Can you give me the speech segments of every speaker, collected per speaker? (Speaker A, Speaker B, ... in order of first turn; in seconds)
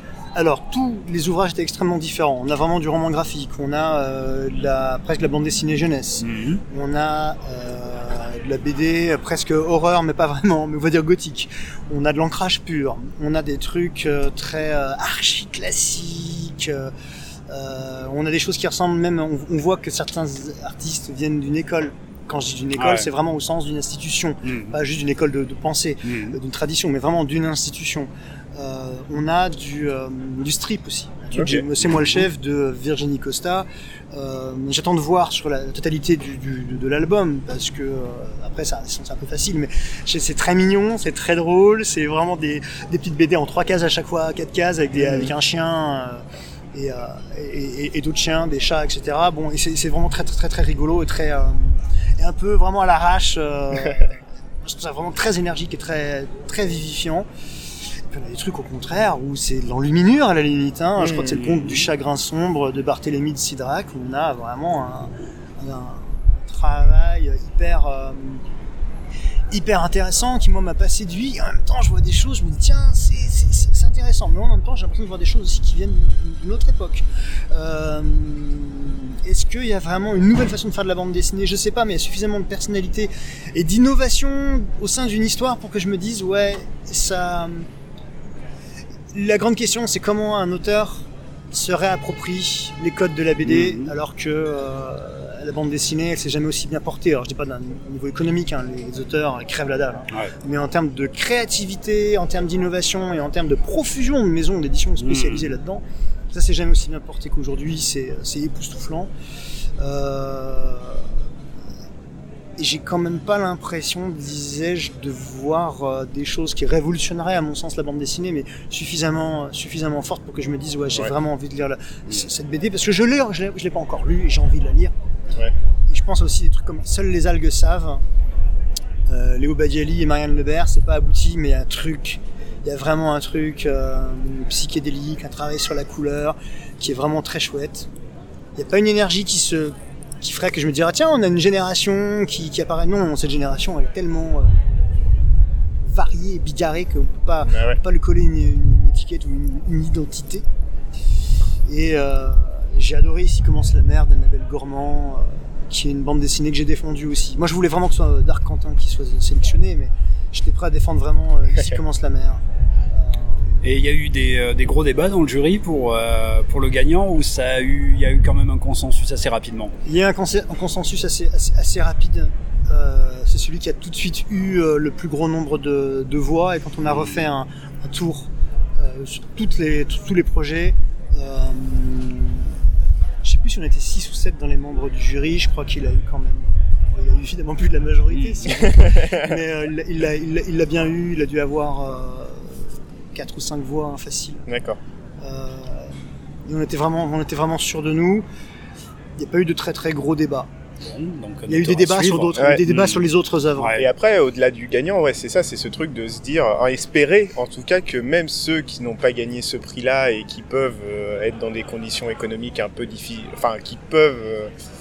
Speaker A: 0.3-16.9, 17.5-46.2, 46.7-57.3, 58.1-68.4, 69.5-87.7, 89.1-109.1, 109.8-111.1, 112.6-124.9, 125.9-128.0, 129.1-137.9, 138.6-144.6, 145.8-150.4, 151.7-163.4, 169.8-182.5, 183.2-194.4, 195.2-195.9, 196.4-198.2, 199.2-200.5, 201.5-203.8
Speaker B: 6.2-6.6, 22.8-23.1, 24.4-24.8, 26.0-26.4, 31.8-32.3, 61.2-61.9, 93.4-93.9, 105.0-105.5, 163.6-169.7, 176.8-177.2, 188.1-188.6, 200.8-203.8
Speaker C: 31.3-31.6, 44.9-45.3, 61.0-61.4, 147.5-147.8, 188.6-189.3, 194.5-194.8, 202.3-202.6, 203.7-214.5